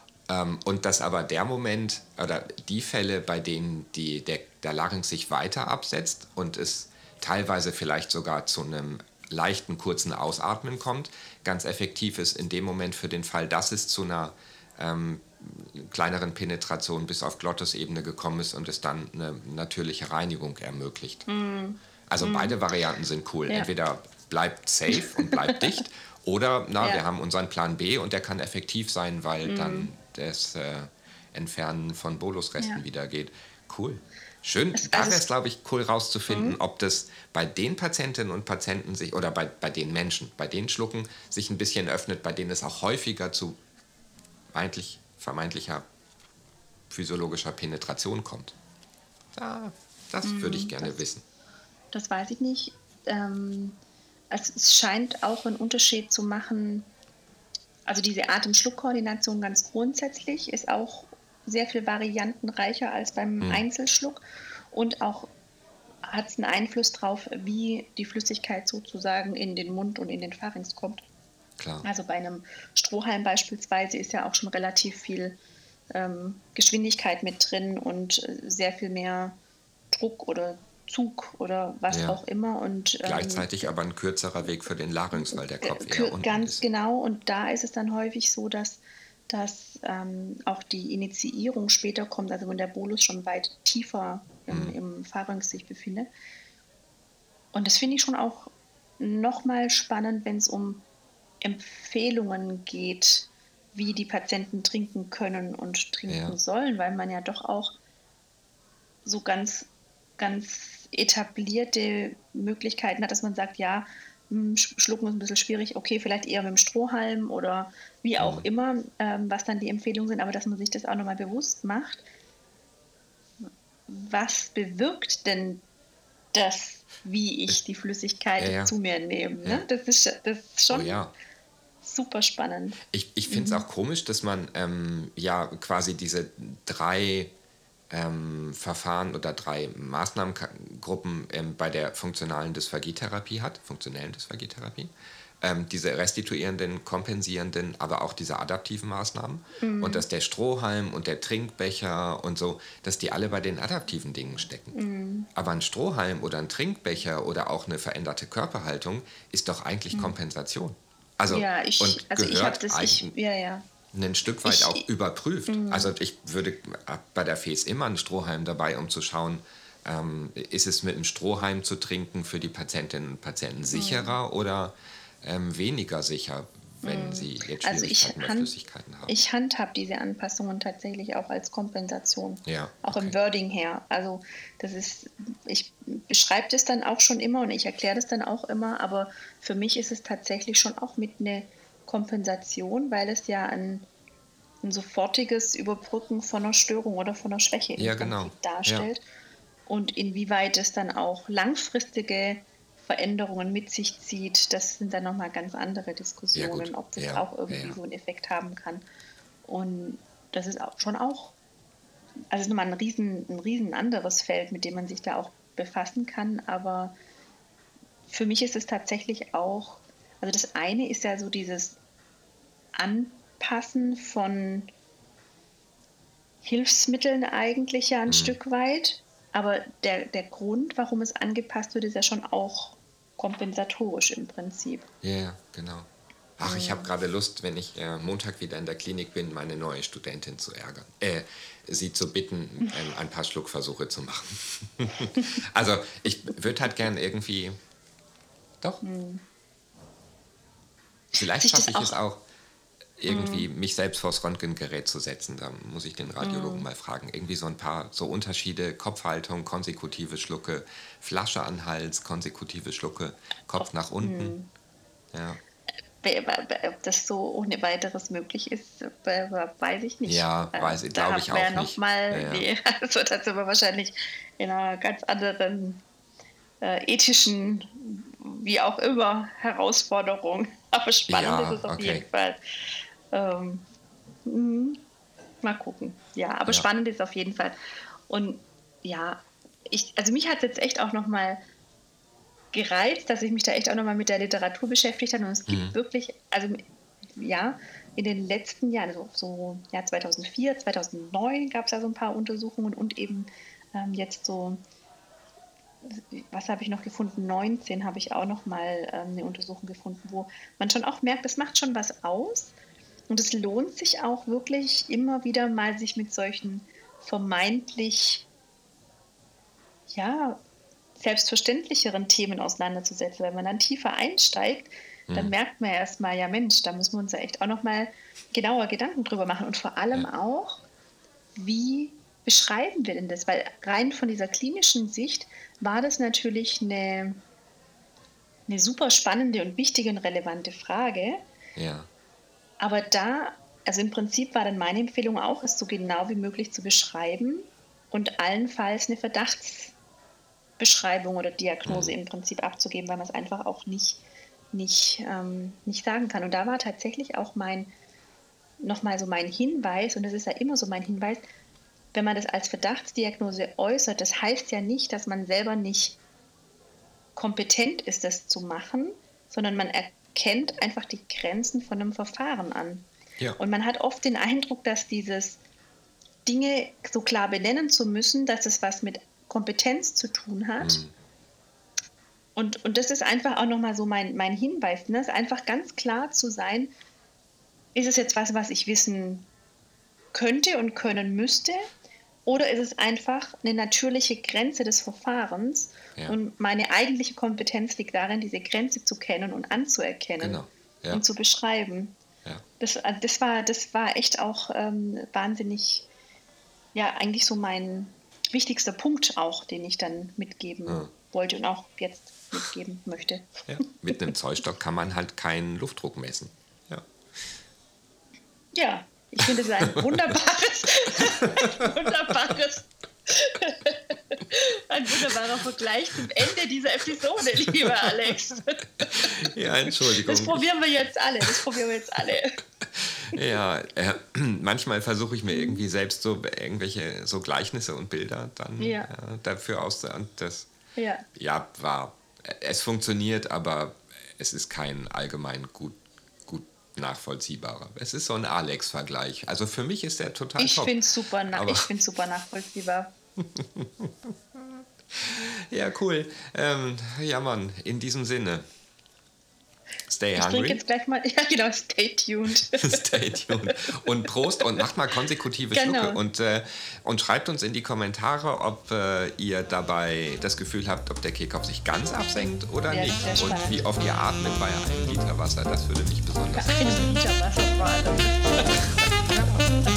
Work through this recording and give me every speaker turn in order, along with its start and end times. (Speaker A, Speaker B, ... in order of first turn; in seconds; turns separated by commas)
Speaker A: 0.3-21.3, Speaker B: 21.3-22.6, Speaker A: 22.1-43.6, Speaker B: 24.9-25.6, Speaker B: 29.4-29.9, Speaker B: 34.7-35.2, Speaker B: 36.3-36.6, Speaker A: 44.5-45.9, Speaker A: 46.9-48.5, Speaker A: 49.4-51.2, Speaker B: 50.2-51.0, Speaker B: 51.9-53.8, Speaker B: 54.3-56.9, Speaker B: 57.9-64.2, Speaker B: 64.7-65.3, Speaker B: 66.1-71.0, Speaker A: 71.6-71.9, Speaker B: 71.8-75.4, Speaker B: 75.9-79.3, Speaker B: 79.9-83.7, Speaker A: 81.9-82.2, Speaker A: 83.0-86.6, Speaker B: 85.1-96.1, Speaker A: 94.5-94.8, Speaker B: 97.5-100.8, Speaker B: 101.4-107.7, Speaker A: 106.1-106.4, Speaker B: 109.0-109.7, Speaker B: 110.2-122.0, Speaker A: 118.2-118.5, Speaker B: 123.9-125.6, Speaker B: 126.3-130.9, Speaker A: 128.4-128.7, Speaker A: 130.7-131.1, Speaker B: 131.8-133.6, Speaker A: 132.9-137.3, Speaker A: 137.9-154.8, Speaker B: 149.6-150.1, Speaker B: 154.7-155.3, Speaker A: 155.3-163.1, Speaker B: 159.9-160.2, Speaker B: 161.3-163.7, Speaker A: 163.9-179.1, Speaker B: 164.4-164.8, Speaker B: 165.5-165.9, Speaker B: 173.7-174.2, Speaker B: 176.8-178.5, Speaker B: 179.1-193.9, Speaker A: 182.4-183.2, Speaker B: 194.6-199.0, Speaker A: 197.8-198.9, Speaker B: 199.7-208.8, Speaker A: 206.3-207.8, Speaker B: 209.4-211.3, Speaker B: 212.3-216.9, Speaker B: 218.1-221.8, Speaker B: 222.7-224.7, Speaker B: 226.4-234.9, Speaker A: 228.1-228.4, Speaker A: 235.0-247.6, Speaker B: 236.4-236.9, Speaker B: 248.8-249.2, Speaker A: 251.1-252.2, Speaker B: 251.2-252.0, Speaker A: 253.0-264.4, Speaker B: 253.1-253.5, Speaker B: 256.2-256.6, Speaker B: 263.6-264.5, Speaker A: 265.1-265.4, Speaker B: 266.0-275.8, Speaker A: 270.1-272.5, Speaker B: 276.6-282.4, Speaker A: 281.1-282.1, Speaker B: 283.1-283.6, Speaker B: 284.2-284.8, Speaker B: 285.4-287.5, Speaker B: 288.1-291.4, Speaker B: 292.5-296.6, Speaker A: 295.5-295.7, Speaker B: 297.1-304.6, Speaker B: 305.8-312.5, Speaker B: 313.1-318.2, Speaker B: 319.9-320.4, Speaker B: 321.0-330.6, Speaker A: 325.1-325.3, Speaker B: 331.4-337.2, Speaker B: 338.5-341.2, Speaker A: 341.6-341.9, Speaker B: 342.6-349.7, Speaker B: 350.6-354.0, Speaker A: 351.6-351.9, Speaker B: 354.5-357.7, Speaker B: 358.6-361.2, Speaker B: 361.9-366.0, Speaker B: 367.1-372.9, Speaker B: 373.4-375.4, Speaker B: 376.2-380.8, Speaker A: 380.6-380.9, Speaker B: 382.4-386.7, Speaker B: 387.7-389.3, Speaker B: 390.1-391.7, Speaker B: 392.2-401.9, Speaker A: 400.2-401.0, Speaker B: 402.6-405.9, Speaker B: 406.7-413.3, Speaker A: 413.5-417.3, Speaker B: 418.5-432.4, Speaker A: 419.2-420.0, Speaker A: 421.0-421.7, Speaker A: 427.3-428.1, Speaker A: 428.8-430.5, Speaker A: 432.1-440.5, Speaker B: 435.3-435.6, Speaker B: 438.6-438.9, Speaker B: 440.8-441.1, Speaker A: 441.1-451.7, Speaker B: 450.4-452.9, Speaker A: 453.2-458.4, Speaker A: 459.9-460.6, Speaker B: 460.1-464.5, Speaker A: 462.4-476.9, Speaker B: 465.5-466.0, Speaker B: 472.7-473.6, Speaker B: 476.3-478.9, Speaker A: 479.1-479.5